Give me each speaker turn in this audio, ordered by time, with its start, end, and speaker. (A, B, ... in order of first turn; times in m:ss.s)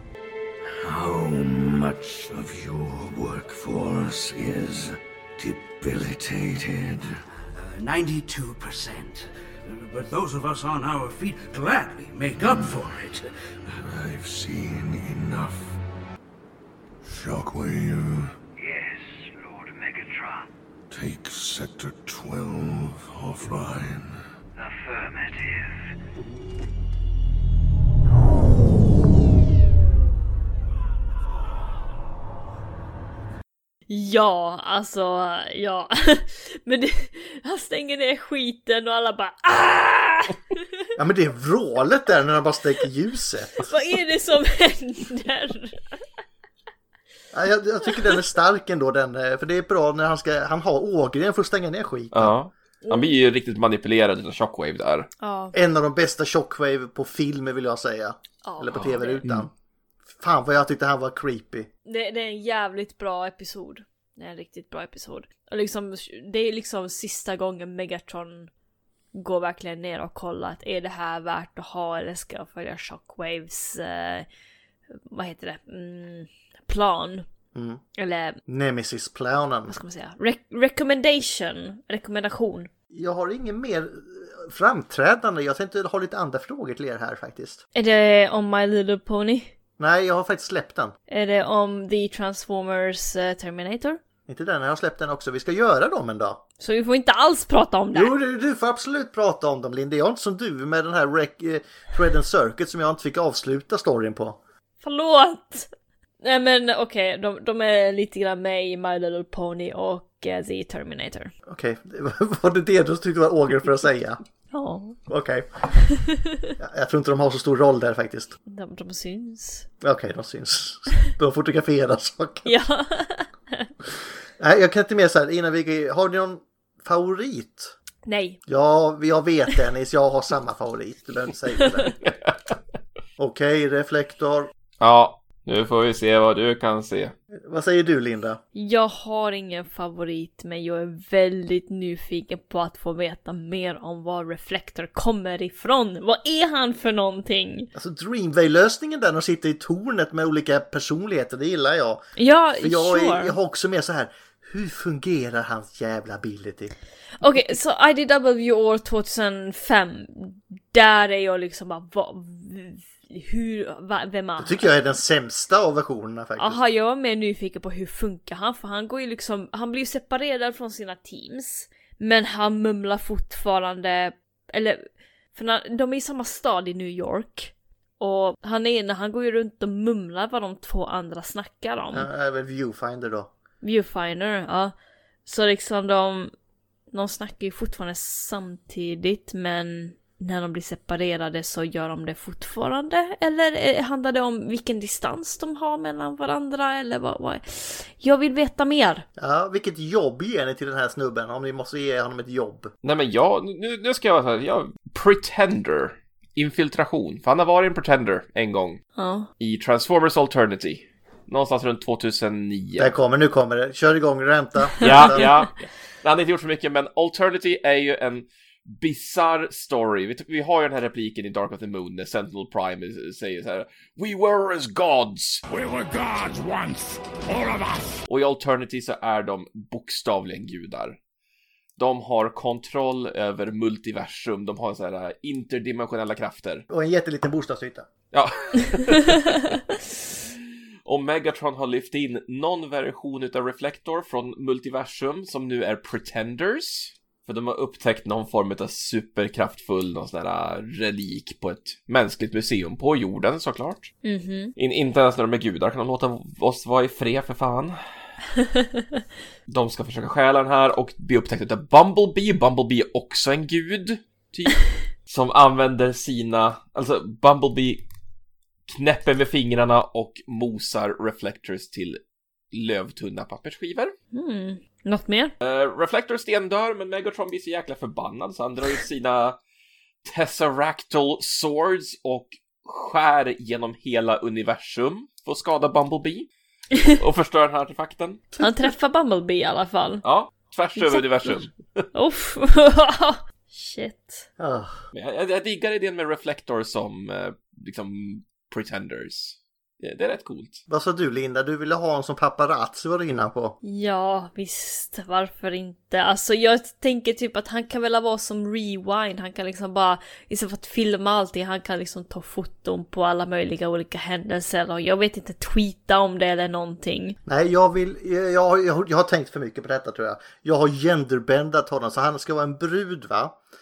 0:00.6-0:07.2 A
0:07.5-0:13.3 B
0:12.4-0:12.8 A
0:13.8-0:15.8 A
0:17.0-0:18.3 A
0:20.9-0:24.2 A
0:33.9-0:40.6 C
0:41.0-0:43.7 D
0:43.6-0:46.0 C
0:47.3-0:52.4 D
0:52.1-0:55.1 E
0:52.8-0:53.2 C
0:55.2-0:55.6 C
0:55.5-0:59.5 D
0:58.4-0:59.2 C
0:58.8-0:59.5 E
1:00.2-1:01.7 D
1:01.9-1:08.5 C
1:09.1-1:14.3 C
1:15.0-1:17.3 C
1:17.6-1:17.8 D
1:18.0-1:18.4 C
1:18.5-1:19.8 D
1:19.7-1:22.7 C
1:22.9-1:27.6 D
1:27.8-1:29.5 C
1:29.8-1:31.0 D
1:31.1-1:34.0 C
1:34.3-1:36.4 D
1:36.6-1:38.1 C
1:37.9-1:44.4 D
1:44.8-1:45.7 C
1:46.2-1:51.3 C
1:51.5-1:54.2 D
1:54.5-1:55.0 C
1:55.1-1:55.7 D
1:55.8-1:56.5 C
1:56.6-1:58.3 D
1:58.5-1:59.7 C
1:59.8-2:02.5 D
2:02.4-2:03.7 C
2:04.4-2:07.7 D
2:08.1-2:08.4 C
2:08.5-2:12.0 D
2:12.0-2:12.3 E
2:13.2-2:14.5 D
2:14.8-2:17.1 E
2:17.3-2:18.4 D
2:18.6-2:27.7 C
2:27.8-2:32.1 D
2:32.2-2:33.4 C
2:32.6-2:36.7 D
2:37.2-2:44.7 C
2:44.4-2:46.6 D
2:46.4-3:02.1 C
3:01.9-3:03.3 D
3:03.6-3:04.7 C
3:05.3-3:06.3 C
3:06.9-3:19.0 C
3:19.2-3:22.7 D
3:22.8-3:28.8 E
3:29.0-3:29.3 C
3:29.4-3:33.0 E
3:32.8-3:35.3 D
3:34.8-3:45.4 E
3:45.5-3:48.0 F
3:48.1-3:51.0 E
3:51.8-3:56.6 E
3:56.7-3:57.9 D
3:58.1-3:59.6 E
4:00.8-4:13.9 E
4:14.0-4:14.6 C
4:14.6-4:17.8 E
4:18.4-4:18.8 C
4:19.5-4:27.8 E
4:28.7-4:32.0 E
4:32.5-4:34.0 E
4:34.1-4:35.3 C
4:35.4-4:39.4 E
4:40.0-4:46.3 E
4:46.9-4:48.3 E
4:48.4-4:50.0 C
4:50.0-4:51.8 E
4:50.8-4:51.4 C
4:51.9-4:54.3 C
4:54.4-4:54.8 D
4:54.9-5:00.6 E
5:00.7-5:03.6 D
5:03.6-5:17.2 C
5:17.3-5:23.4 D